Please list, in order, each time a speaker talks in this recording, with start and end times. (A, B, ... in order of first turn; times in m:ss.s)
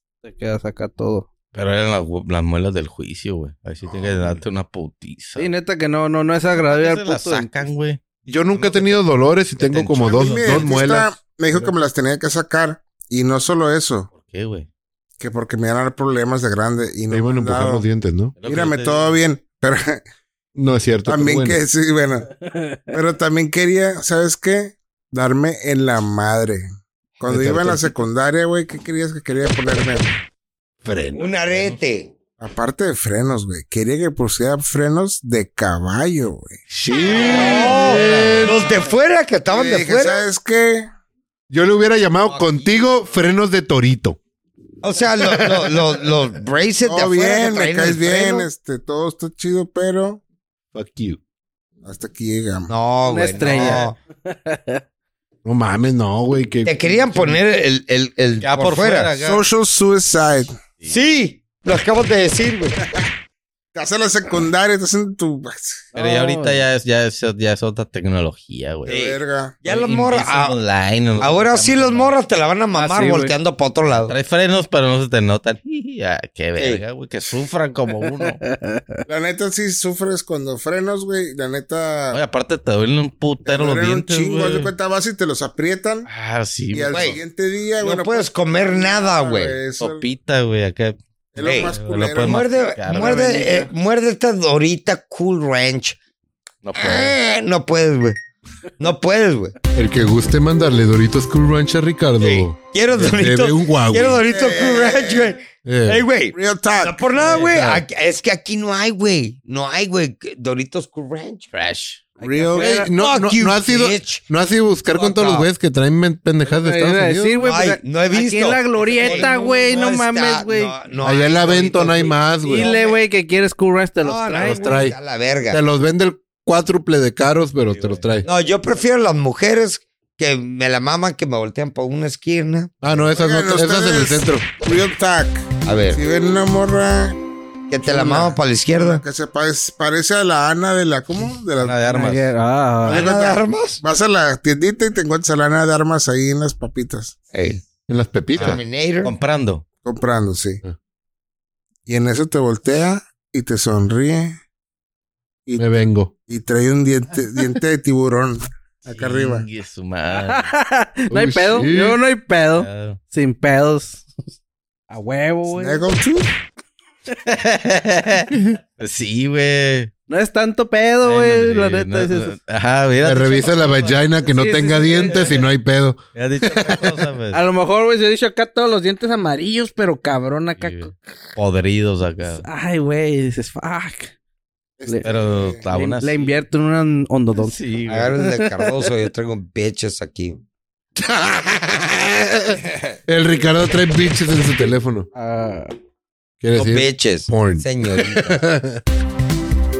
0:00.2-0:01.3 A
0:01.5-0:05.5 B
0:04.0-0:04.4 C
0:05.4-0:07.5 A
0:06.6-0:08.0 B
0:08.3-0:11.7 C
0:08.5-0:09.0 B
0:09.6-0:10.8 B
0:10.0-0:14.1 D
0:14.1-0:14.7 B
0:15.2-0:17.8 D
0:17.1-0:18.4 C
0:18.4-0:19.2 B
0:18.4-0:20.0 D
0:20.6-0:21.6 C
0:21.0-0:22.3 D
0:22.5-0:22.8 A
0:22.9-0:26.6 D
0:27.2-0:30.2 D
0:27.3-0:27.9 C
0:30.8-0:31.4 C
0:31.2-0:32.1 E
0:32.4-0:36.6 D
0:36.7-0:38.7 C
0:37.1-0:40.2 E
0:39.5-0:40.9 D
0:41.5-0:44.2 C
0:42.3-0:42.8 E
0:44.8-0:48.5 E
0:45.2-0:46.0 C
0:46.8-0:50.2 D
0:50.7-0:51.2 C
0:51.8-0:52.7 D
0:52.7-0:54.0 E
0:53.0-0:54.8 A
0:55.4-0:57.4 C
0:56.6-0:59.1 E
0:58.4-0:59.4 B
0:59.2-1:00.6 D
1:00.8-1:02.8 E
1:03.7-1:05.9 D
1:05.9-1:06.6 A
1:05.9-1:08.9 B
1:08.8-1:09.6 D
1:08.9-1:10.6 E
1:09.6-1:12.1 B
1:11.2-1:14.1 E
1:12.7-1:13.3 A
1:13.9-1:18.4 B
1:18.4-1:19.0 A
1:19.1-1:22.2 D
1:22.1-1:24.7 B
1:23.4-1:26.1 D
1:26.1-1:27.2 B
1:26.7-1:30.1 D
1:26.9-1:27.2 E
1:27.8-1:29.6 E
1:29.8-1:33.6 B
1:31.3-1:32.5 D
1:31.4-1:36.0 E
1:33.0-1:33.4 A
1:36.6-1:37.2 B
1:36.7-1:38.2 E
1:38.8-1:39.5 E
1:39.7-1:44.2 C
1:42.2-1:51.5 E
1:44.3-1:45.3 D
1:45.6-1:46.0 C
1:46.3-1:47.0 D
1:47.2-1:47.8 B
1:51.5-1:52.0 B
1:52.2-1:52.9 A
1:52.3-1:57.4 C
1:52.6-1:54.2 E
1:54.9-1:55.5 E
1:56.5-2:00.7 A
1:57.4-2:03.0 E
1:59.0-1:59.3 B
2:01.0-2:02.7 C
2:02.4-2:04.8 A
2:04.0-2:05.6 E
2:04.4-2:05.0 C
2:05.5-2:08.3 C
2:07.7-2:08.1 B
2:08.2-2:12.7 E
2:12.8-2:14.5 C
2:13.0-2:17.2 D
2:15.6-2:16.0 E
2:17.7-2:19.0 E
2:17.9-2:21.8 D
2:21.6-2:22.3 B
2:21.9-2:23.1 A
2:22.8-2:27.2 D
2:22.9-2:23.8 E
2:27.3-2:27.6 E
2:27.9-2:28.6 C
2:28.4-2:29.1 E
2:28.4-2:29.6 B
2:29.8-2:30.6 D
2:31.8-2:34.4 D
2:35.6-2:36.1 C
2:36.2-2:39.5 D
2:38.9-2:40.5 B
2:40.1-2:44.3 A
2:41.1-2:42.0 C
2:42.6-2:43.0 B
2:44.9-2:45.8 A
2:45.5-2:46.3 D
2:47.2-2:49.9 B
2:50.1-2:52.4 A
2:51.0-2:53.6 B
2:53.0-2:56.9 C
2:53.3-2:55.4 A
2:56.1-2:57.4 B
2:57.3-3:00.9 A
3:00.6-3:02.4 B
3:02.4-3:04.1 A
3:04.8-3:05.0 C
3:04.8-3:05.1 A
3:05.0-3:06.4 B
3:05.3-3:05.6 D
3:05.7-3:07.6 A
3:07.4-3:08.2 B
3:07.9-3:10.4 E
3:11.0-3:15.1 C
3:15.1-3:15.7 A
3:16.4-3:18.8 C
3:16.5-3:18.4 E